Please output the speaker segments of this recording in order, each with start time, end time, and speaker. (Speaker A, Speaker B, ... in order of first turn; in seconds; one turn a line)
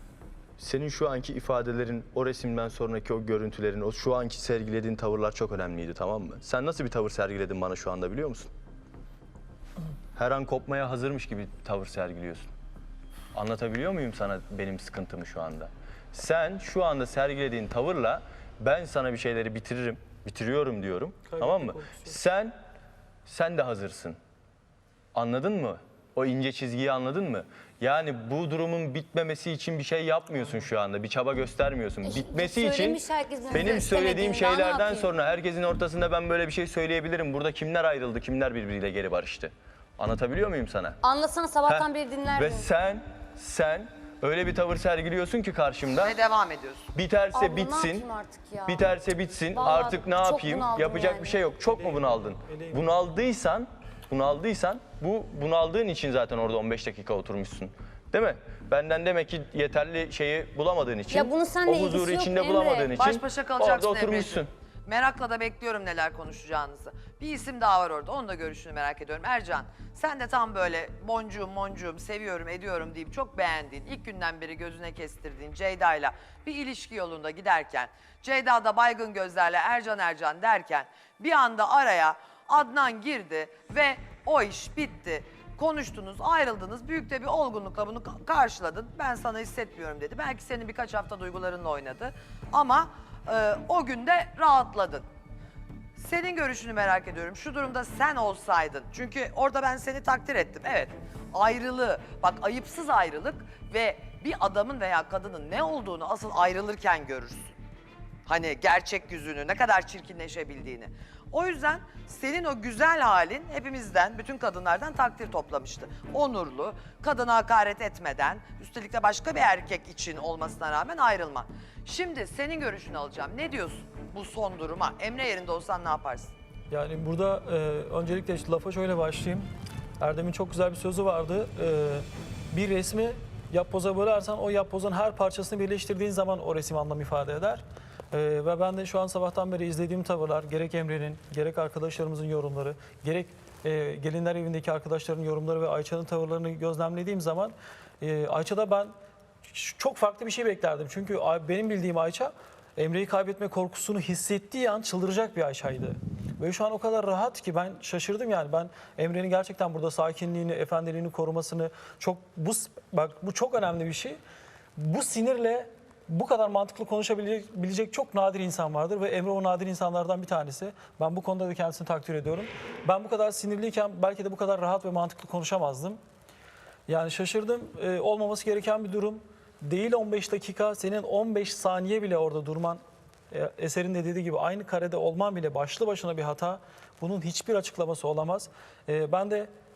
Speaker A: 0.6-8.5
Speaker A: 10.2-12.5
Speaker A: 13.3-22.6
Speaker B: 21.3-22.2
Speaker A: 23.3-24.2
Speaker A: 25.1-41.0
Speaker C: 32.0-35.1
Speaker C: 41.0-42.7
Speaker A: 41.7-46.1
Speaker D: 46.0-46.9
Speaker A: 46.9-48.1
Speaker C: 47.3-48.9
Speaker A: 48.7-64.5
Speaker C: 49.5-51.4
Speaker B: 51.7-52.8
Speaker C: 61.1-62.9
Speaker D: 63.0-95.1
Speaker D: 96.0-107.5
Speaker D: 108.3-126.3
Speaker B: 126.7-129.5
Speaker B: 130.0-148.9
Speaker B: 149.5-164.2
Speaker B: 164.8-176.0
Speaker B: 176.9-189.5